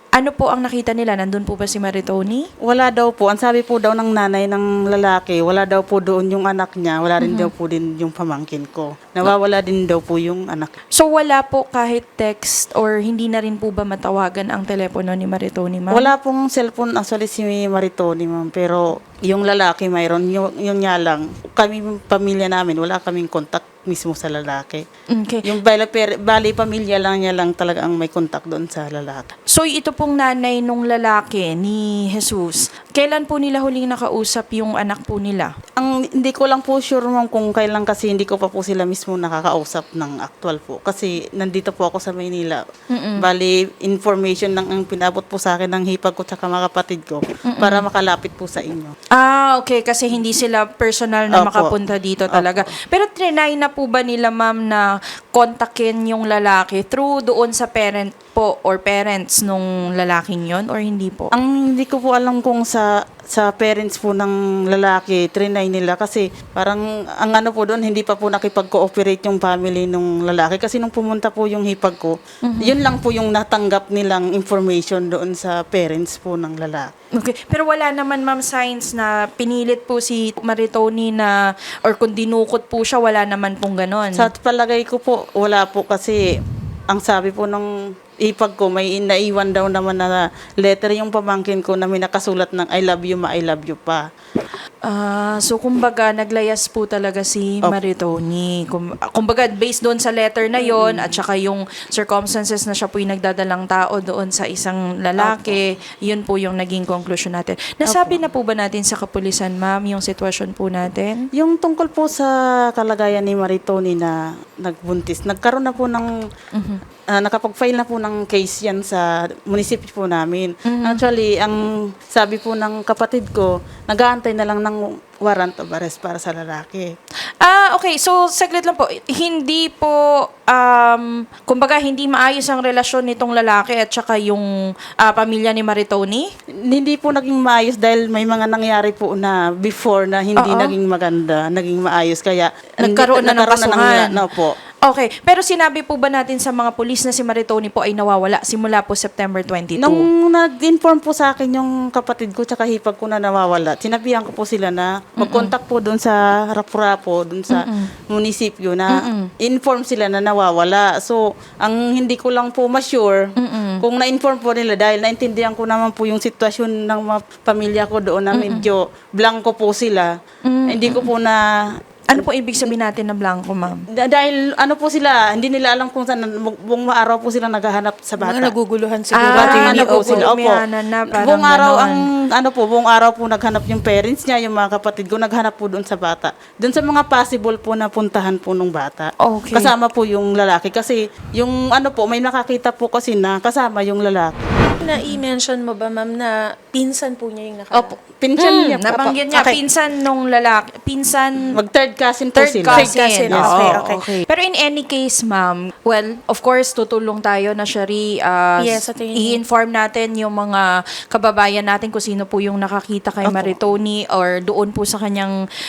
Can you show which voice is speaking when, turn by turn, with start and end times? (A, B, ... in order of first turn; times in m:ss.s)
0:00.2-0:02.5 A
0:02.6-0:10.7 B
0:07.2-0:07.5 A
0:10.9-0:16.1 A
0:15.9-0:24.8 B
0:25.1-0:25.4 A
0:25.4-0:29.2 B
0:29.5-0:35.5 A
0:35.8-0:42.6 B
0:42.9-0:43.2 A
0:43.2-0:48.9 B
0:47.5-0:47.8 A
0:49.1-1:01.3 A
0:51.3-0:51.7 B
0:52.3-0:52.7 B
1:01.3-1:16.9 B
1:12.4-1:12.7 A
1:17.2-1:21.3 A
1:21.8-1:24.3 A
1:24.2-1:26.2 B
1:26.9-1:27.7 B
1:28.2-1:34.0 B
1:34.8-1:51.3 A
1:40.6-1:41.2 B
1:45.2-1:45.6 B
1:47.8-1:48.2 B
1:51.4-1:56.1 B
1:56.5-1:56.8 A
1:57.1-2:06.9 B
2:00.6-2:01.0 A
2:07.4-2:14.4 A
2:15.0-2:16.3 A
2:16.7-2:24.5 B
2:20.4-2:20.7 A
2:22.8-2:24.1 A
2:24.8-2:30.0 A
2:29.8-2:43.3 B
2:35.2-2:35.5 A
2:37.5-2:37.9 A
2:38.9-2:39.3 A
2:43.4-2:43.8 A
2:43.8-2:50.1 B
2:48.3-2:48.7 A
2:50.4-2:51.1 A
2:50.7-2:51.4 B
2:52.1-2:53.8 A
2:52.1-2:52.7 B
2:53.9-2:58.5 B
2:58.2-3:00.2 C
2:59.1-3:02.0 A
2:59.3-3:14.4 B
3:09.2-3:09.7 A
3:14.7-3:19.6 C
3:17.7-3:19.5 B
3:18.4-3:21.5 A
3:21.5-3:24.2 B
3:22.4-3:35.3 A
3:22.7-3:24.1 C
3:28.6-3:29.4 C
3:33.2-3:33.6 B